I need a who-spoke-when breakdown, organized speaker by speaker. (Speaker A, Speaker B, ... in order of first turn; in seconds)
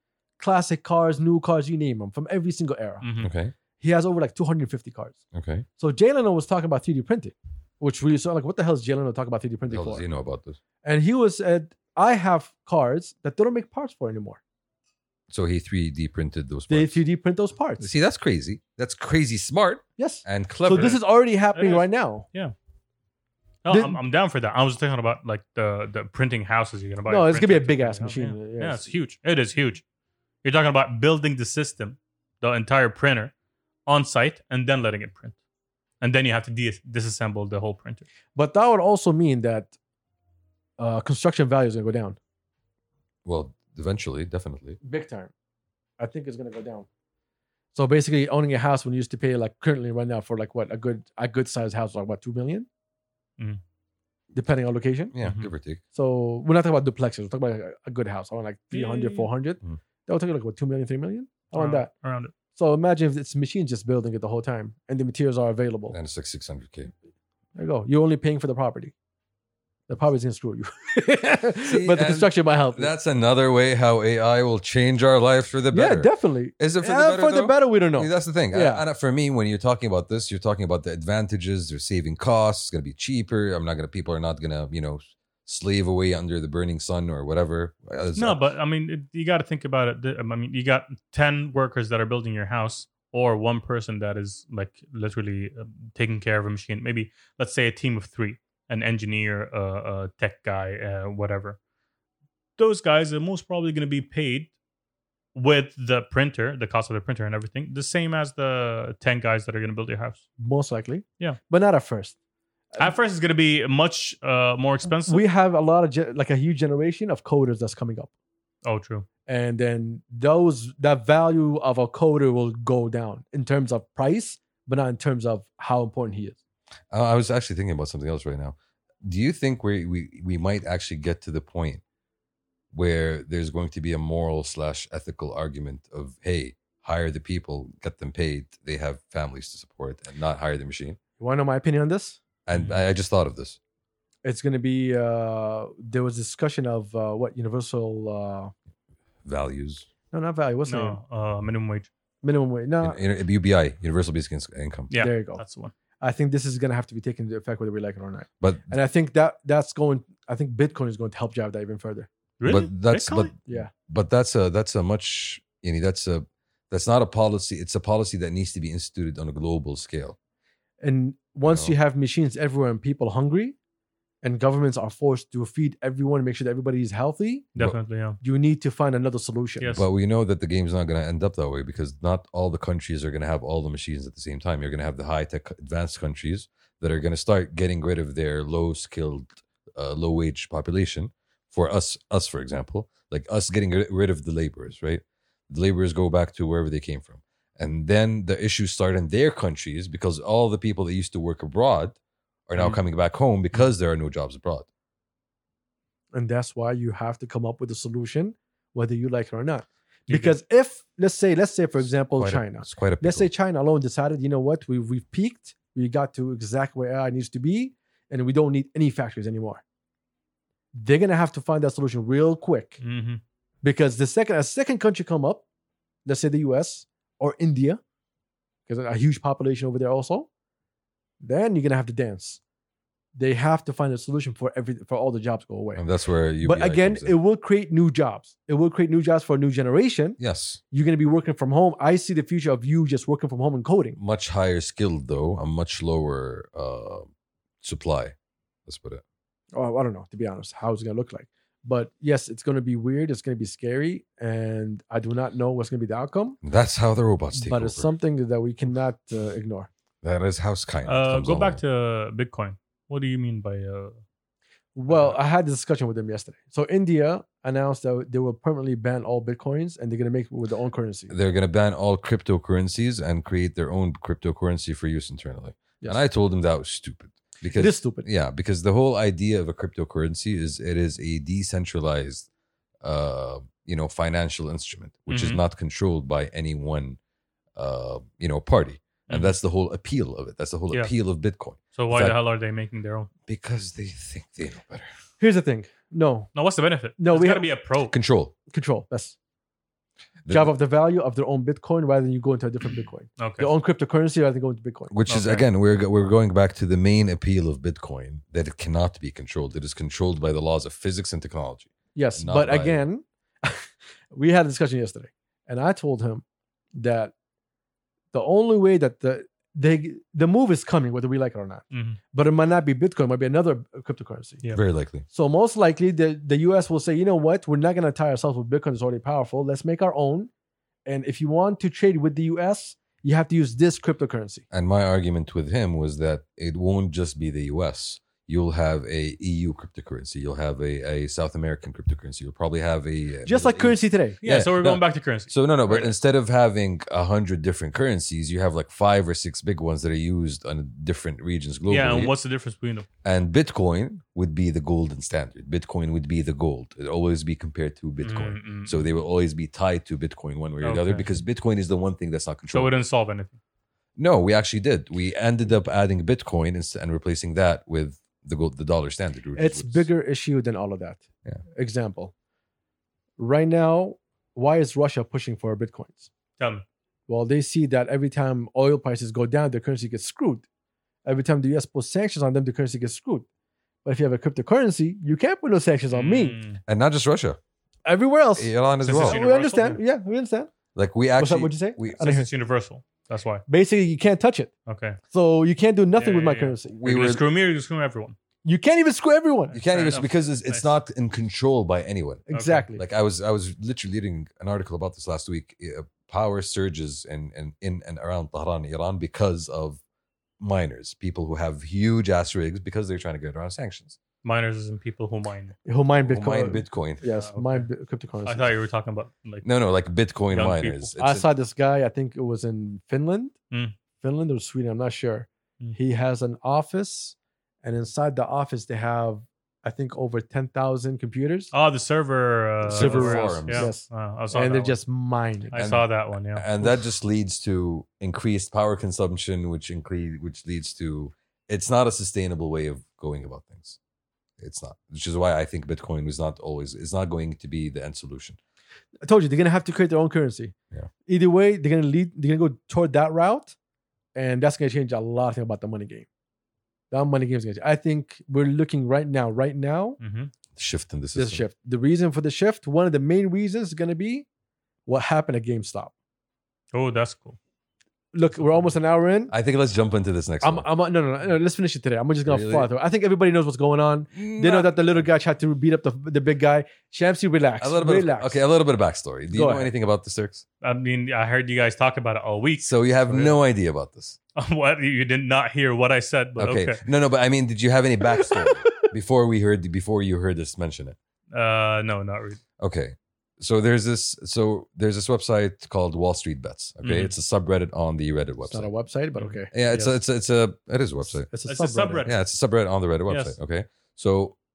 Speaker A: 0.4-3.1, 3.8-5.2, 5.8-10.1, 10.8-14.4, 16.7-17.9, 20.0-22.3, 23.7-24.0, 27.1-28.9, 38.4-39.7, 40.8-42.2, 44.8-45.3, 46.0-46.9, 47.7-52.7, 54.3-55.1, 55.9-61.9, 62.5-66.0, 67.6-68.9, 69.9-72.9, 75.7-78.8, 110.4-112.2, 115.0-118.1, 119.3-126.4, 141.2-142.2, 144.2-148.5, 150.1-151.0, 152.2-153.0, 155.0-155.4, 156.0-162.1, 163.5-163.7, 170.8-173.6, 174.2-177.5, 178.2-179.7, 206.1-219.6, 220.7-222.8, 223.6-225.4, 226.1-227.8, 228.7-230.3, 231.2-232.4, 233.2-235.8, 236.4-240.2, 240.7-244.0, 249.5-256.4, 257.3-259.7, 264.8-271.1, 277.6-278.1, 295.2-296.3, 297.0-297.5, 298.5-299.1, 300.3-304.9, 311.9-316.2, 316.8-317.1, 318.1-324.4, 325.1-330.3, 330.9-334.4, 343.2-344.2, 369.4-371.0, 371.5-372.1, 373.2-376.1, 377.1-380.4, 381.1-383.3, 383.9-386.4, 387.9-390.5, 391.2-392.3, 393.5-394.5, 395.1-396.7, 398.4-399.6, 402.3-402.8, 415.7-418.5, 421.0-423.3, 424.0-431.5, 432.7-435.6, 449.0-450.5, 451.1-453.6, 454.1-456.1, 456.9-460.0, 461.2-464.3, 464.9-465.9, 468.1-469.3, 470.4-478.4, 479.3-479.7, 488.1-488.9, 498.5-499.5, 501.3-502.1
Speaker B: 3.0-3.3, 20.7-21.0, 21.5-22.5, 23.6-29.8, 30.4-33.3, 33.9-35.4, 36.0-38.1, 55.2-55.5, 58.7-59.3, 61.5-62.3, 88.2-101.6, 102.6-104.5, 105.3-110.2, 112.8-115.2, 118.6-119.1, 142.5-142.8, 150.7-151.9, 154.9-155.7, 162.4-163.3, 177.6-178.2, 179.6-179.8, 202.6-202.8, 210.1-210.4, 222.8-223.2, 260.9-264.0, 285.1-285.4, 289.1-289.4, 291.8-293.1, 296.4-298.0, 303.2-303.5, 305.1-305.5, 321.7-322.0, 344.2-345.9, 351.7-352.9, 358.0-358.9, 360.6-361.1, 362.5-363.4, 376.4-376.6, 385.9-386.6, 388.8-389.8, 392.0-393.4, 394.7-395.0, 396.0-398.2, 399.5-400.7, 402.3-402.7, 414.2-415.6, 417.0-417.7, 418.2-419.5, 420.3-420.9, 431.5-434.8, 435.5-436.5, 460.0-460.3, 466.7-467.4, 480.6-483.4, 484.4-486.8, 491.3-492.4, 496.8-497.1, 499.2-500.0, 501.5-502.1, 503.1-503.4
Speaker C: 3.2-3.5, 5.3-5.7, 9.7-10.6, 15.3-17.0, 17.8-21.0, 43.2-44.8, 55.1-55.8, 65.9-66.9, 71.6-88.5, 126.9-131.8, 132.7-141.0, 142.5-143.6, 149.2-149.9, 152.8-154.9, 158.4-158.8, 162.4-170.2, 171.5-171.8, 179.7-202.0, 202.5-204.7, 212.2-213.3, 235.8-237.2, 240.2-240.6, 244.0-247.1, 247.6-248.2, 248.7-249.0, 256.4-257.9, 260.0-261.6, 271.1-282.3, 282.8-287.0, 287.6-292.2, 293.3-294.9, 297.9-298.3, 300.2-300.5, 304.9-312.8, 324.5-325.1, 334.5-352.1, 353.0-362.7, 364.0-369.9, 386.7-387.4, 388.4-389.2, 390.8-392.2, 396.7-397.2, 399.5-409.8, 410.4-414.0, 416.0-417.1, 419.4-421.3, 432.6-433.7, 435.6-443.8, 444.4-448.4, 460.6-461.4, 469.3-470.7, 472.2-472.7, 474.1-475.1, 477.6-480.4, 482.6-484.2, 486.4-491.0, 492.6-498.7, 499.5-501.3, 502.1-504.4